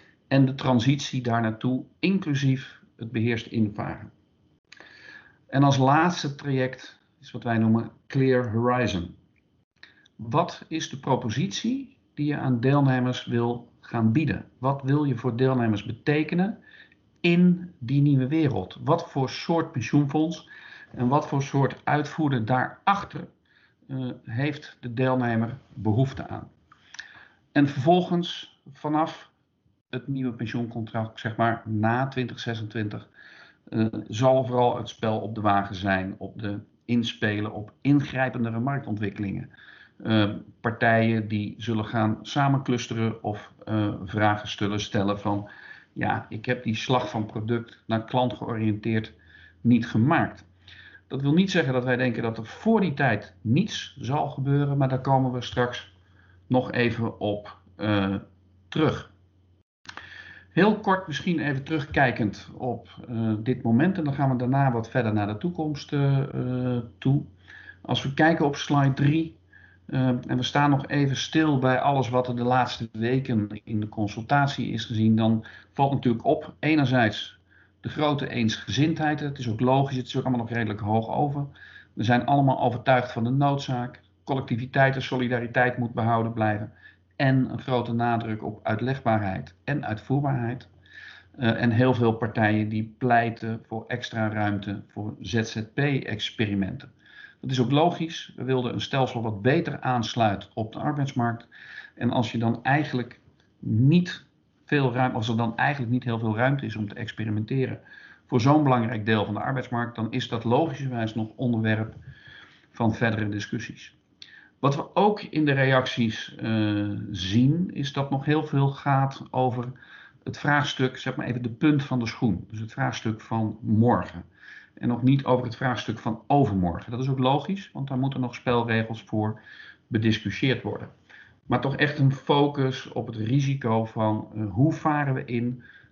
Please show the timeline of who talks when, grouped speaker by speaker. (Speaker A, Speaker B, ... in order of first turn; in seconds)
Speaker A: 0.3-4.1, 5.5-9.2, 10.2-16.6, 17.2-23.3, 23.9-26.5, 27.5-29.3, 29.9-33.1, 33.7-50.5, 51.1-55.9, 56.5-59.1, 60.5-67.3, 67.8-69.4, 69.9-90.7, 91.4-96.9, 97.4-112.0, 112.7-114.0, 114.6-119.7, 120.2-124.3, 124.8-130.9, 131.5-135.6